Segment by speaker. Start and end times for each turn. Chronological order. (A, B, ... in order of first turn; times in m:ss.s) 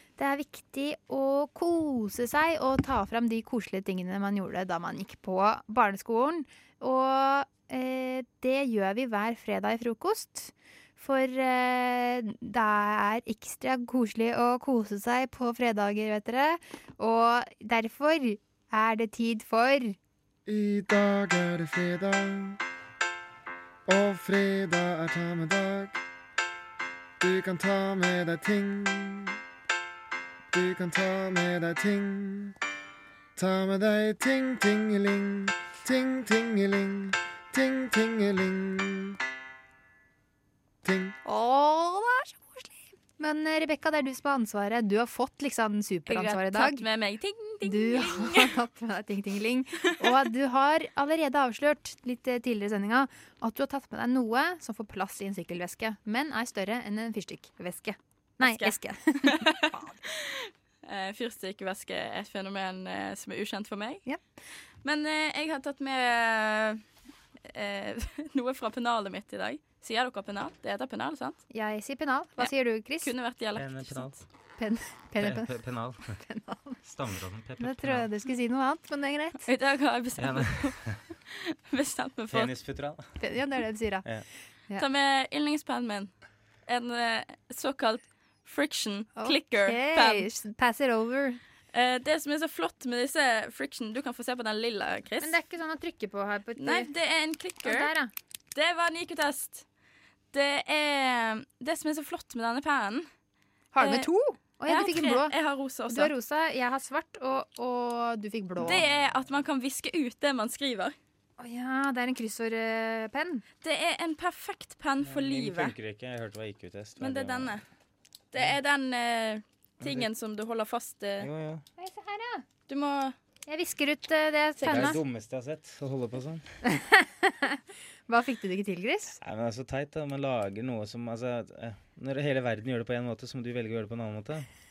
0:00.2-0:20.0 A
0:20.5-0:22.6 B
0:23.9-0:26.0 B
0:27.2-0:29.4 B
0:30.5-0:32.6 B
0:33.4-0:39.2 B
0:40.8-0:41.2 B
0:41.3-0:42.6 A
0:43.2-0:46.8 A
0:46.1-0:48.5 C
0:47.6-0:59.9 A
0:58.4-1:04.0 C
1:04.8-1:06.8 C
1:07.5-1:11.4 C
1:11.5-1:13.1 A
1:13.0-1:14.1 C
1:13.6-1:14.2 D
1:14.6-1:15.5 A
1:15.2-1:16.2 D
1:16.1-1:16.8 A
1:16.8-1:18.1 D
1:17.6-1:19.4 A
1:19.5-1:20.8 C
1:20.2-1:21.0 D
1:21.3-1:22.5 C
1:22.3-1:23.0 D
1:23.2-1:24.1 A
1:24.8-1:26.1 C
1:26.7-1:30.3 C
1:29.2-1:31.4 A
1:31.7-1:35.4 C
1:35.2-1:36.9 A
1:36.6-1:37.9 C
1:37.6-1:38.1 A
1:38.6-1:39.6 C
1:40.3-1:43.1 C
1:43.7-1:45.3 A
1:43.8-1:44.1 C
1:44.6-1:46.1 C
1:45.9-1:48.8 A
1:48.6-1:50.9 C
1:51.4-1:53.4 A
1:53.6-1:55.7 C
1:55.0-1:57.6 D
1:57.0-1:57.6 C
1:58.3-2:01.3 C
1:59.8-2:00.1 D
2:01.2-2:01.6 D
2:01.8-2:02.4 A
2:02.7-2:03.2 C
2:03.5-2:05.0 A
2:04.6-2:04.9 C
2:04.6-2:06.4 D
2:06.7-2:09.2 A
2:09.2-2:14.5 D